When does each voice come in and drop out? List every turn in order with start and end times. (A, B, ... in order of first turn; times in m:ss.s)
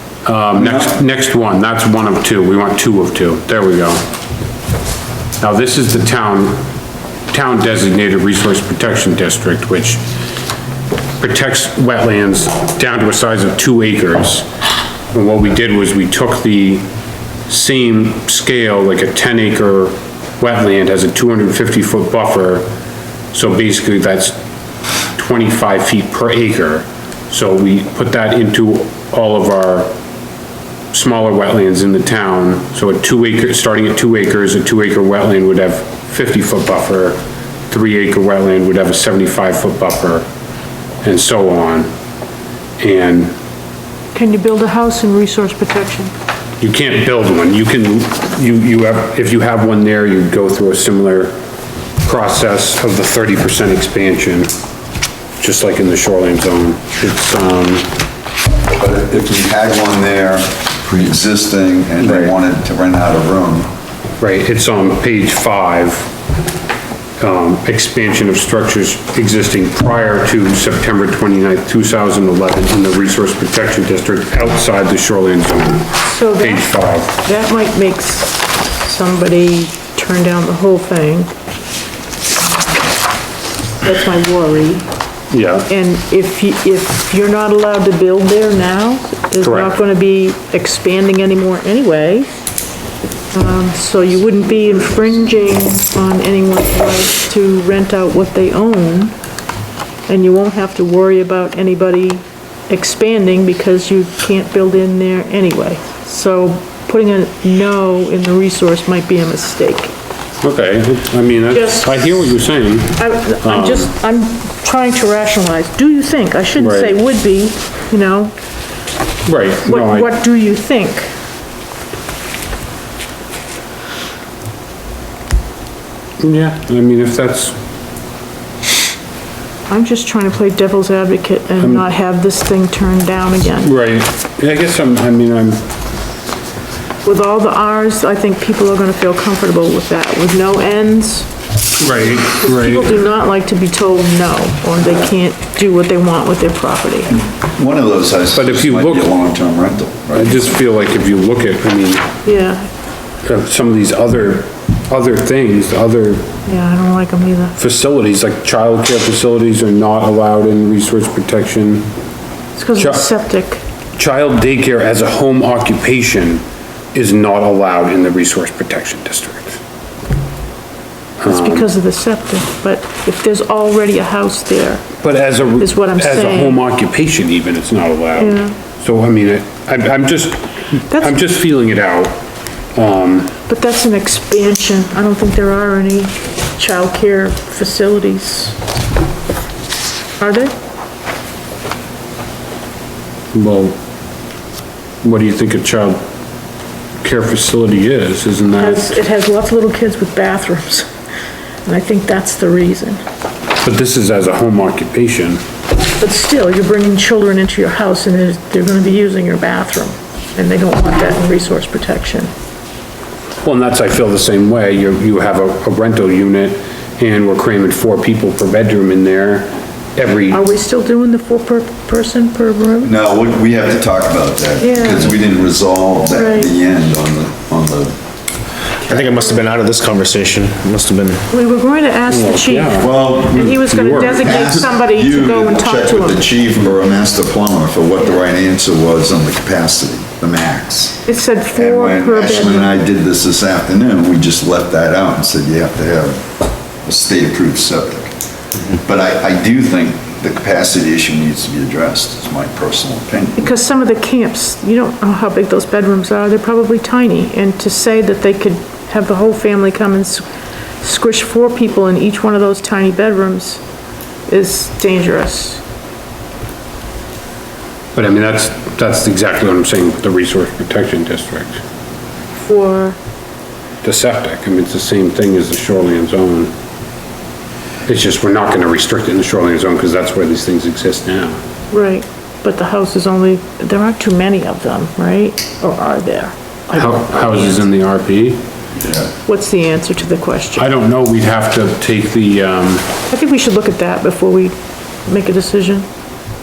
0:00.2-0:04.0 A
0:00.6-0:01.0 B
0:05.4-0:06.6 A
0:07.3-0:10.0 A
0:11.2-0:14.4 A
0:15.1-0:16.8 A
0:17.5-0:22.6 A
0:23.3-0:24.4 A
0:25.2-0:29.9 A
0:30.9-0:37.2 A
0:37.7-0:40.2 A
0:41.0-0:41.9 A
0:42.8-0:43.3 A
0:44.1-0:46.1 C
0:46.6-0:51.3 A
0:52.0-0:54.5 A
0:55.4-0:57.9 A
0:58.7-1:03.7 B
1:02.0-1:02.3 A
1:04.2-1:06.1 A
1:07.2-1:17.2 A
1:16.0-1:21.3 C
1:23.8-1:24.8 C
1:25.3-1:25.7 A
1:25.7-1:32.3 C
1:29.4-1:29.7 A
1:33.3-1:39.2 C
1:40.1-1:49.9 C
1:50.4-1:53.9 A
1:51.5-1:52.1 C
1:52.9-1:58.3 C
1:56.6-1:57.0 A
1:59.2-2:00.1 A
1:59.6-2:01.1 C
2:06.2-2:07.5 A
2:09.7-2:13.7 C
2:11.6-2:11.8 A
2:13.6-2:15.6 A
2:17.0-2:21.3 C
2:21.8-2:22.9 A
2:22.1-2:27.2 C
2:27.3-2:30.5 B
2:28.3-2:29.2 A
2:30.1-2:32.0 A
2:32.2-2:32.7 C
2:33.2-2:36.3 A
2:36.4-2:37.6 C
2:37.6-2:41.9 A
2:42.6-2:43.6 C
2:42.8-2:43.1 A
2:44.0-2:46.4 A
2:46.9-2:49.6 A
2:51.2-2:51.7 A
2:51.2-2:54.8 C
2:55.0-3:02.2 A
2:55.6-2:56.6 C
2:58.2-2:58.5 C
3:00.9-3:01.2 C
3:02.7-3:03.3 A
3:03.5-3:08.6 C
3:10.2-3:10.5 C
3:13.3-3:13.8 A
3:15.0-3:16.0 A
3:17.0-3:19.0 A
3:18.6-3:20.8 C
3:21.6-3:23.0 C
3:23.6-3:25.4 A
3:26.0-3:32.3 C
3:33.4-3:40.4 A
3:40.3-3:42.9 C
3:42.8-3:47.9 B
3:44.6-3:45.1 C
3:46.1-3:46.5 C
3:48.8-3:51.2 D
3:51.3-3:56.3 C
3:52.1-3:54.5 A
3:52.8-4:01.0 B
4:01.0-4:02.8 C
4:01.5-4:06.2 B
4:06.8-4:08.1 B
4:08.7-4:13.5 B
4:13.4-4:20.2 C
4:20.8-4:23.6 C
4:24.3-4:25.6 C
4:27.9-4:31.6 A
4:32.3-4:33.0 C
4:33.8-4:36.5 A
4:37.8-4:41.4 A
4:41.7-4:47.6 C
4:46.7-4:48.4 A
4:49.2-4:50.7 C
4:50.6-4:52.9 A
4:53.1-4:54.5 C
4:55.0-4:55.8 C